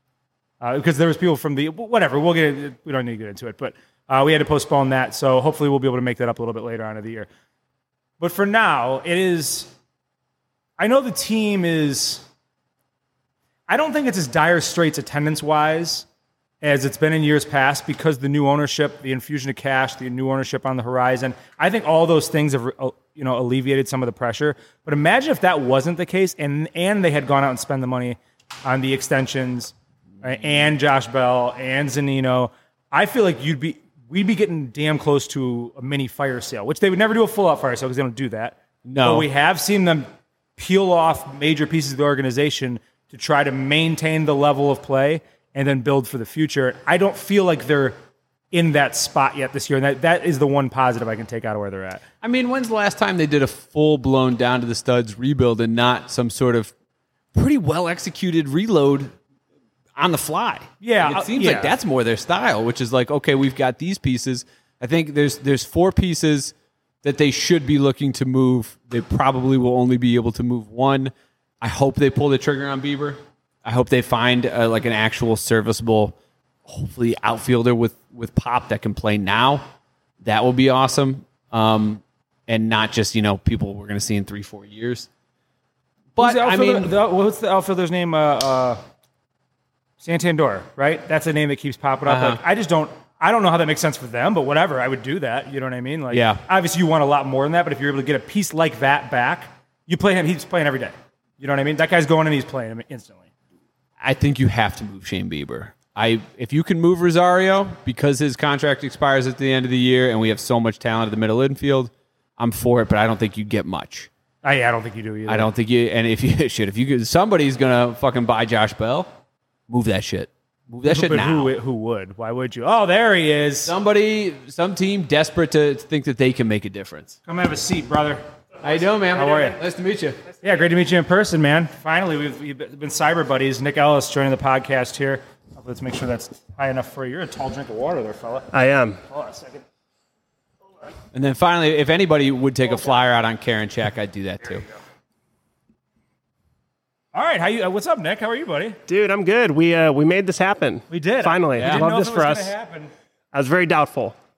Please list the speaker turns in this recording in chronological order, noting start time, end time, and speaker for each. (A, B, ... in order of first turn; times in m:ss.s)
0:00.6-0:07.3 A
0:08.2-0:09.7 A
0:10.8-0:12.2 A
0:13.7-0:16.0 A
0:16.6-0:47.9 A
0:38.8-0:39.3 B
0:48.5-0:52.0 A
0:52.2-0:56.7 B
0:57.3-0:59.1 B
1:00.0-1:19.6 B
1:00.8-1:01.7 A
1:20.2-1:25.1 B
1:26.1-1:26.9 B
1:26.2-1:28.8 A
1:30.0-1:43.2 A
1:32.0-1:32.4 B
1:36.1-1:36.4 B
1:44.0-1:54.1 B
1:54.4-1:55.5 A
1:55.3-1:59.1 B
1:59.7-2:01.5 B
2:00.8-2:03.7 A
2:03.6-2:07.2 B
2:07.2-2:08.2 A
2:08.6-2:10.2 B
2:09.1-2:09.6 A
2:10.4-2:18.5 A
2:18.5-2:19.0 C
2:19.1-2:19.6 A
2:21.1-2:24.6 B
2:27.1-2:28.8 A
2:28.9-2:32.5 C
2:30.9-2:32.9 A
2:31.6-2:31.9 B
2:33.3-2:34.2 C